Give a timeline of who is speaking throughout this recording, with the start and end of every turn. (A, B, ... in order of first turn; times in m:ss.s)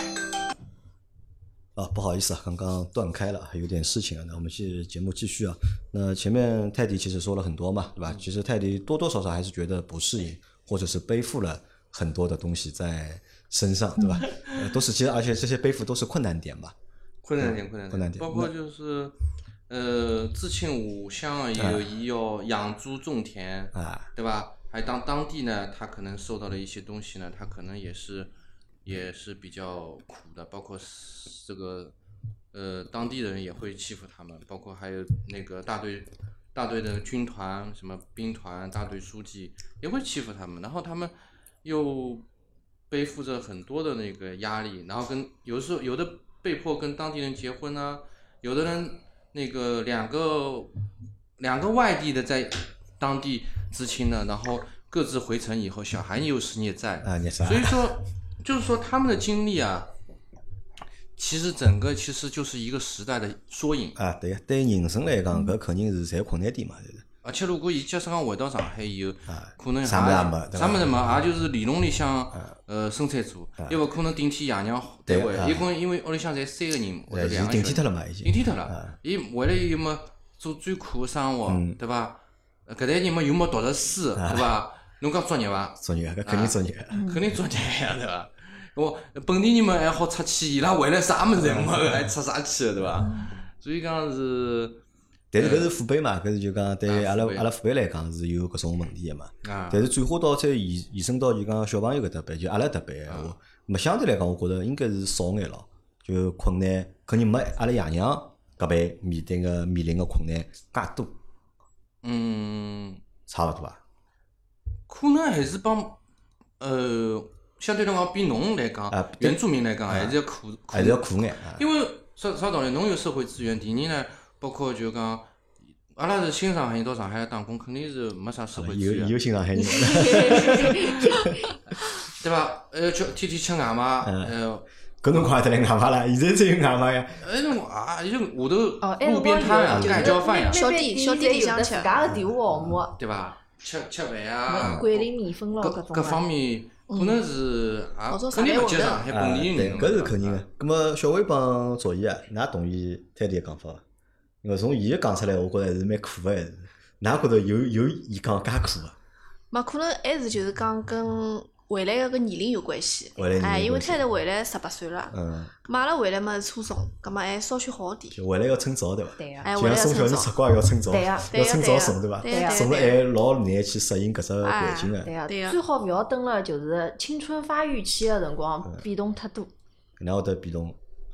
0:01.8-0:16.7 A
0:14.2-0:14.7 B
0:17.2-0:19.1 B
0:17.4-0:18.5 A
0:19.7-0:28.3 B
0:21.6-0:21.9 A
0:23.7-0:24.1 A
0:28.8-0:31.9 B
0:32.5-0:42.3 B
0:42.9-0:50.7 B
0:51.4-0:59.9 B
0:57.0-0:57.9 A
1:01.2-1:04.0 B
1:04.0-1:07.0 A
1:07.2-1:34.8 B
1:09.3-1:10.9 A
1:15.1-1:15.7 A
1:17.1-1:18.9 A
1:21.5-1:21.8 A
1:24.2-1:24.5 A
1:25.8-1:27.0 A
1:26.9-1:27.2 C
1:31.4-1:32.0 A
1:35.3-1:51.2 A
1:35.4-1:35.7 B
1:36.8-1:37.4 B
1:39.4-1:39.9 B
1:43.1-1:43.4 B
1:52.0-1:53.0 B
1:53.3-1:53.8 A
1:54.9-1:56.0 B
1:56.6-2:05.3 B
1:58.9-2:00.2 A
2:00.7-2:01.6 A
2:05.9-2:09.2 B
2:08.5-2:11.4 A
2:09.5-2:11.4 C
2:12.0-2:14.6 B
2:14.0-2:14.3 A
2:15.0-2:17.2 A
2:17.2-2:20.6 B
2:18.8-2:22.9 C
2:19.7-2:20.2 A
2:20.0-2:21.9 D
2:22.1-2:22.8 A
2:23.0-2:30.4 B
2:24.5-2:26.2 C
2:24.6-2:24.8 A
2:26.9-2:27.2 D
2:28.1-2:29.0 D
2:29.1-2:33.8 A
2:34.4-2:38.9 A
2:39.5-2:45.1 D
2:43.2-2:44.0 A
2:45.1-2:45.5 A
2:45.6-2:48.2 D
2:48.1-2:55.1 A
2:49.2-2:49.5 C
2:49.4-2:50.3 D
2:50.9-2:51.3 C
2:51.3-2:53.0 D
2:52.2-2:52.7 C
2:54.4-2:55.6 D
2:55.0-2:59.5 C
3:00.0-3:00.8 A